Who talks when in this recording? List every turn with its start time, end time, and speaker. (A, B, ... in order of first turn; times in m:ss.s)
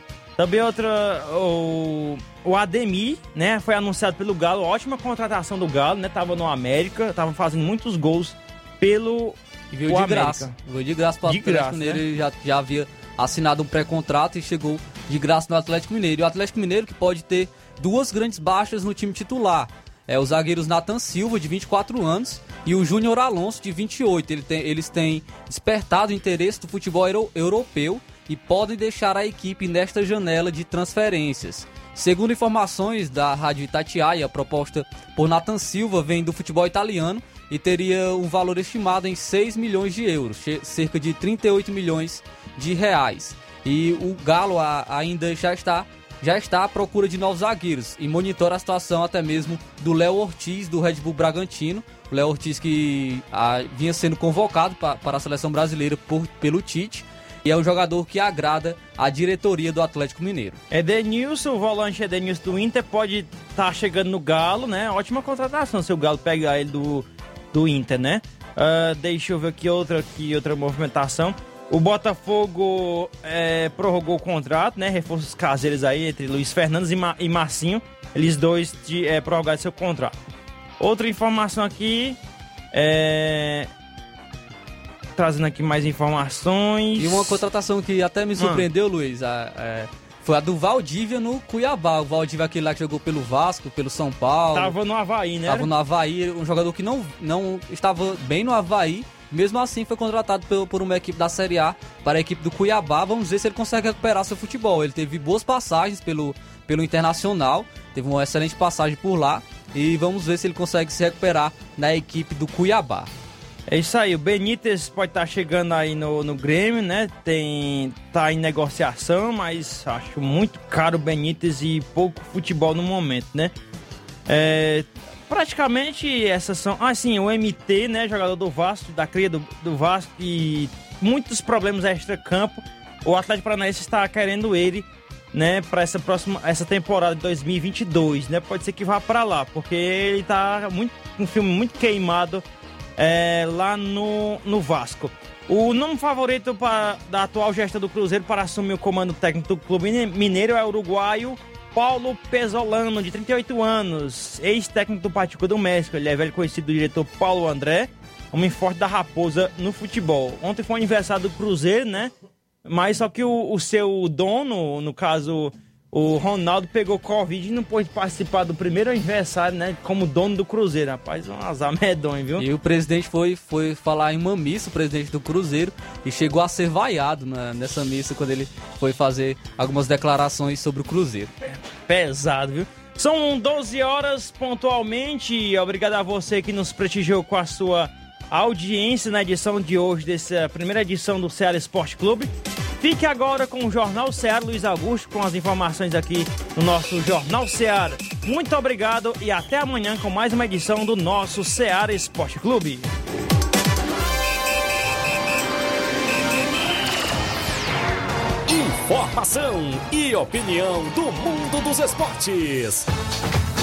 0:00.4-0:10.5 A
0:09.7-1:00.6 B
0:11.3-0:12.0 A
1:00.7-1:20.2 A
1:20.8-1:22.2 A
1:22.7-1:23.7 A
1:25.2-1:27.4 A
1:27.0-1:34.8 B
1:28.4-1:28.6 A
1:34.5-1:35.7 A
1:35.5-1:53.1 B
1:53.7-2:03.5 A
2:04.3-2:22.4 A
2:23.0-2:42.1 A
2:42.6-2:52.4 A
2:52.4-3:01.3 B
3:01.9-3:12.3 A
3:12.8-3:22.9 A
3:28.5-3:32.9 C